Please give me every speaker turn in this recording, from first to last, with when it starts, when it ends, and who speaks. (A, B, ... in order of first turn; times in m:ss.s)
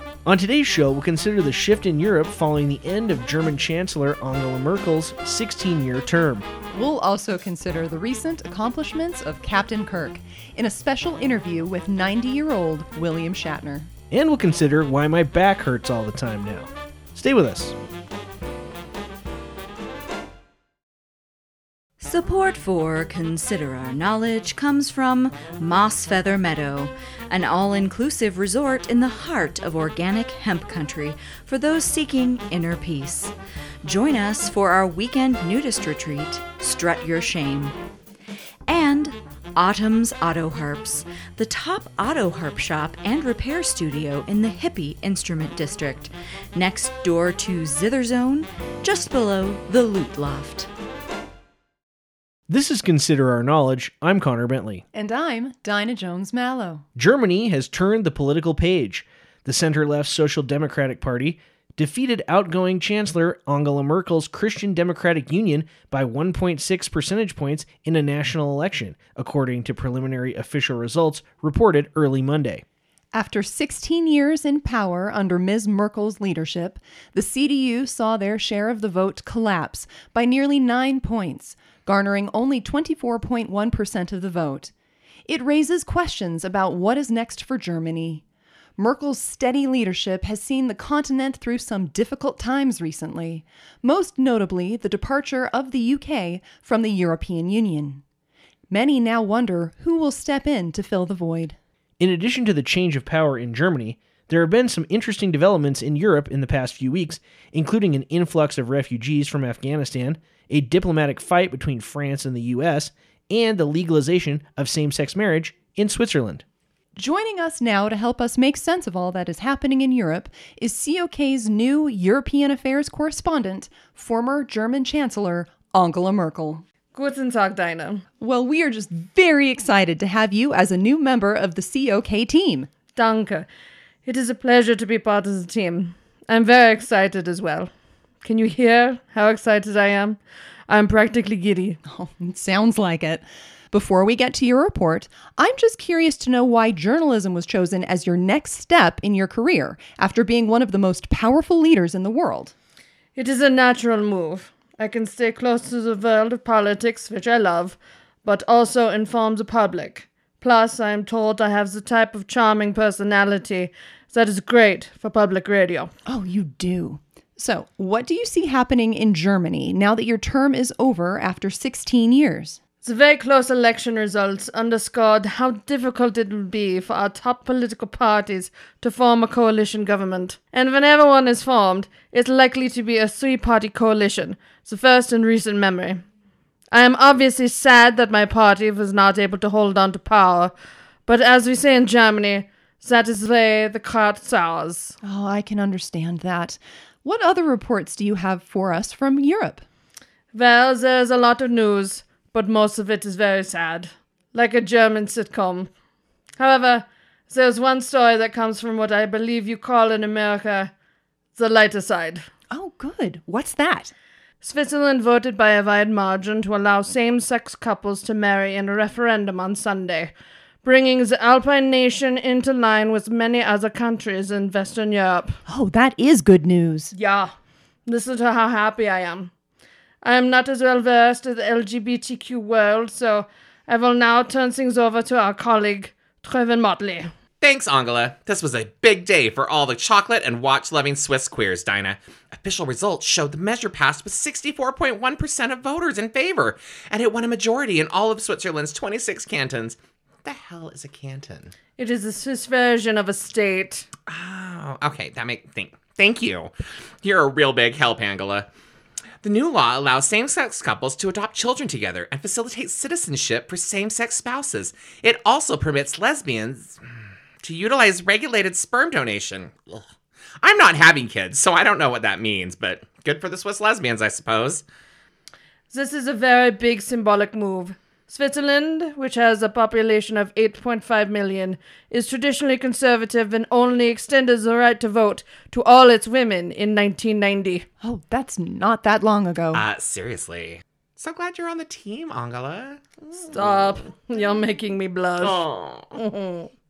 0:00.2-0:06.5 A
0:06.7-0:13.9 B
0:14.1-0:17.8 A
0:22.0-0:33.3 C
0:33.8-0:37.7 C
0:38.7-0:50.7 C
0:52.5-0:54.8 A
0:54.9-0:56.8 B
0:57.0-1:12.6 A
1:13.1-1:24.7 B
1:25.3-1:28.2 B
1:28.8-1:38.0 B
1:38.7-1:41.6 B
1:42.0-1:56.4 A
1:57.0-2:06.6 B
2:06.9-2:08.0 D
2:08.2-2:12.7 B
2:12.9-2:13.5 D
2:14.0-2:17.7 D
2:18.2-2:21.8 D
2:21.8-2:32.5 B
2:33.1-2:45.9 D
2:46.0-2:52.6 B
2:52.8-3:06.0 D
3:06.7-3:10.5 D
3:11.0-3:14.9 D
3:15.0-3:19.6 B
3:20.3-3:25.7 D
3:26.4-3:30.7 D
3:31.4-3:32.3 D
3:32.5-3:33.9 B
3:34.4-3:45.4 D
3:45.5-3:46.9 B
3:47.0-3:47.3 D
3:47.8-3:49.3 D
3:50.0-3:57.1 D
3:57.4-4:11.5 E
4:11.8-4:13.8 D
4:14.1-4:18.5 E
4:19.2-4:26.8 E
4:27.4-4:29.9 E
4:30.4-4:34.6 E
4:35.7-4:47.6 D
4:47.8-4:49.6 B
4:49.5-4:53.8 E
4:53.2-4:55.4 D
4:55.2-4:56.0 E
4:56.0-4:56.5 D